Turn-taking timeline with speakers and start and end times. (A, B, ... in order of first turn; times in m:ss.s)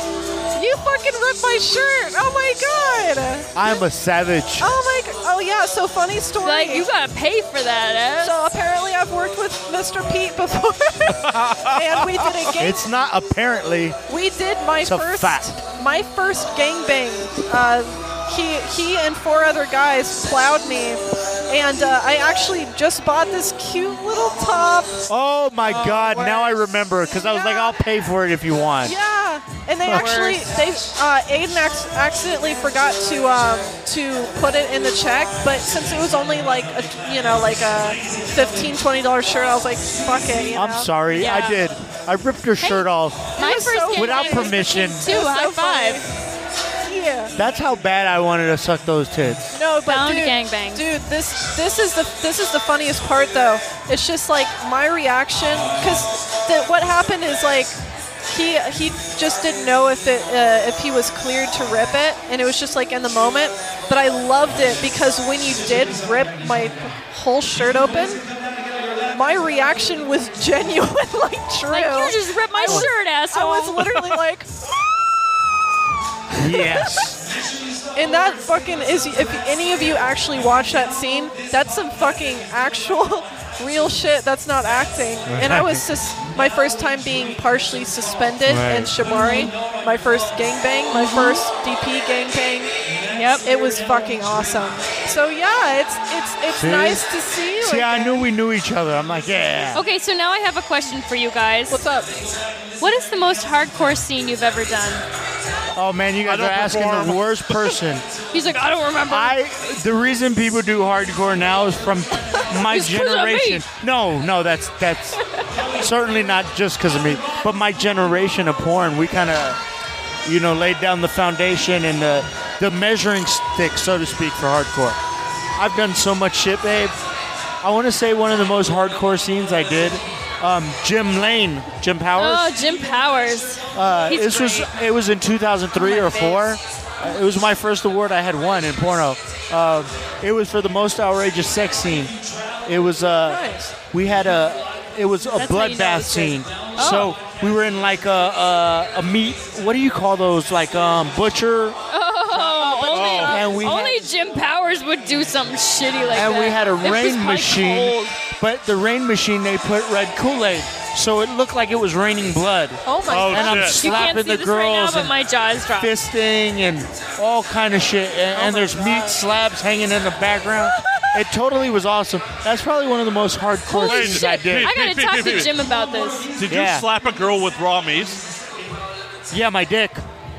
0:00.5-0:03.5 A
0:03.5-0:04.7 B
0:04.6-0:06.8 A
0:06.4-0:08.4 C
0:08.2-0:12.8 A
0:11.1-0:12.5 D
0:12.6-0:14.0 B
0:14.1-0:25.0 A
0:14.8-0:15.5 B
0:25.1-0:28.9 B
0:25.6-0:26.6 A
0:27.2-0:27.8 A
0:28.8-0:40.9 A
0:29.8-0:30.1 B
0:29.9-0:30.6 C
0:40.5-0:43.4 B
0:41.1-0:41.6 C
0:42.6-0:46.0 C
0:43.4-0:46.1 A
0:43.9-0:45.1 B
0:46.8-0:47.3 A
0:47.4-0:49.5 B
0:49.5-1:08.2 A
0:49.8-0:50.8 C
1:09.1-1:14.5 A
1:11.7-1:14.1 C
1:16.4-1:17.2 B
1:16.4-1:17.1 A
1:17.9-1:32.7 A
1:25.2-1:25.8 B
1:28.4-1:28.9 B
1:29.0-1:29.5 C
1:30.9-1:31.4 C
1:33.1-1:33.4 C
1:33.4-1:38.2 A
1:36.6-1:37.0 B
1:37.6-1:39.8 B
1:39.7-1:41.8 C
1:41.7-1:42.1 A
1:42.8-1:45.0 C
1:45.7-1:48.0 B
1:46.2-1:47.8 D
1:48.3-1:49.4 C
1:49.1-1:55.2 B
1:52.6-1:53.6 C
1:55.8-1:59.6 B
2:00.2-2:05.0 B
2:05.6-2:07.0 B
2:07.6-2:12.5 B
2:12.2-2:14.7 C
2:13.7-2:22.1 B
2:15.8-2:16.4 A
2:22.6-2:31.8 B
2:23.2-2:23.7 A
2:25.3-2:27.1 C
2:31.9-2:38.2 C
2:32.3-2:33.5 A
2:32.9-2:33.4 D
2:33.3-2:34.0 B
2:36.1-2:45.1 B
2:42.8-2:44.2 A
2:43.1-2:43.8 D
2:43.4-2:46.0 C
2:45.8-2:54.7 B
2:48.3-2:49.2 A
2:53.7-2:56.3 C
2:53.8-2:55.5 D
2:56.4-2:58.2 D
2:56.5-2:56.8 B
2:59.3-3:00.0 B